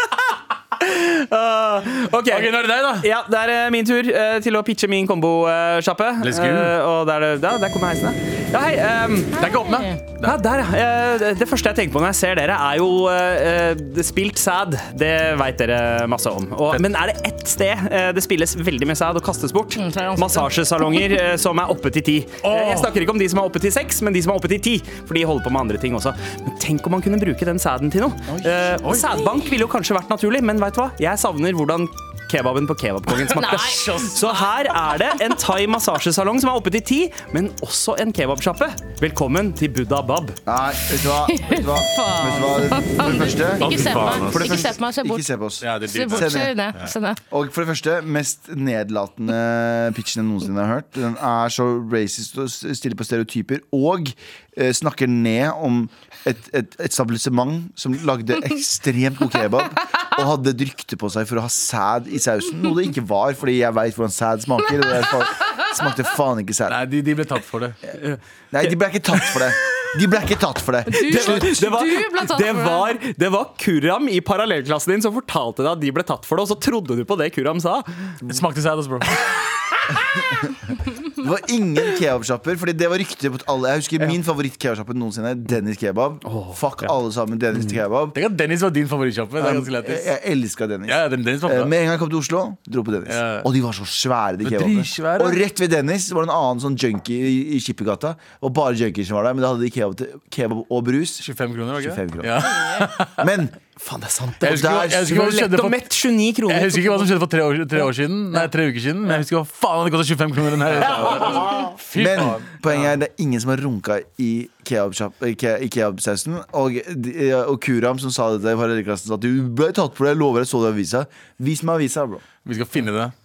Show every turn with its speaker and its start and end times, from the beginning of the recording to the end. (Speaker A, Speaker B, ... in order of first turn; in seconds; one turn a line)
Speaker A: 0.8-9.4
Speaker B: 2.3-3.1
Speaker B: 6.2-6.8
Speaker B: 9.3-10.4
Speaker C: 9.3-10.0
Speaker A: 10.2-40.4
Speaker C: 19.8-20.5
Speaker B: 22.4-22.9
Speaker D: 28.3-28.7
Speaker B: 33.1-34.2
Speaker C: 33.4-34.4
Speaker D: 40.5-46.5
Speaker C: 41.2-47.2
Speaker B: 43.6-44.7
Speaker B: 45.6-46.9
Speaker D: 47.3-66.8
Speaker B: 66.7-67.8
Speaker A: 68.0-68.7
Speaker D: 68.5-71.6
Speaker C: 70.9-73.0
Speaker A: 71.0-78.1
Speaker B: 78.2-79.2
Speaker D: 81.2-88.2
Speaker A: 86.2-86.9
Speaker B: 88.1-90.1
Speaker D: 89.4-101.2
Speaker B: 90.9-91.7
Speaker B: 93.1-93.5
Speaker B: 94.4-95.4
Speaker B: 101.2-103.2
Speaker D: 101.8-102.5
Speaker C: 102.5-102.8
Speaker D: 103.2-103.5
Speaker A: 103.8-107.1
Speaker D: 104.4-105.2
Speaker B: 104.4-105.8
Speaker B: 106.5-112.8
Speaker D: 110.8-122.2
Speaker A: 110.8-111.4
Speaker B: 122.4-123.1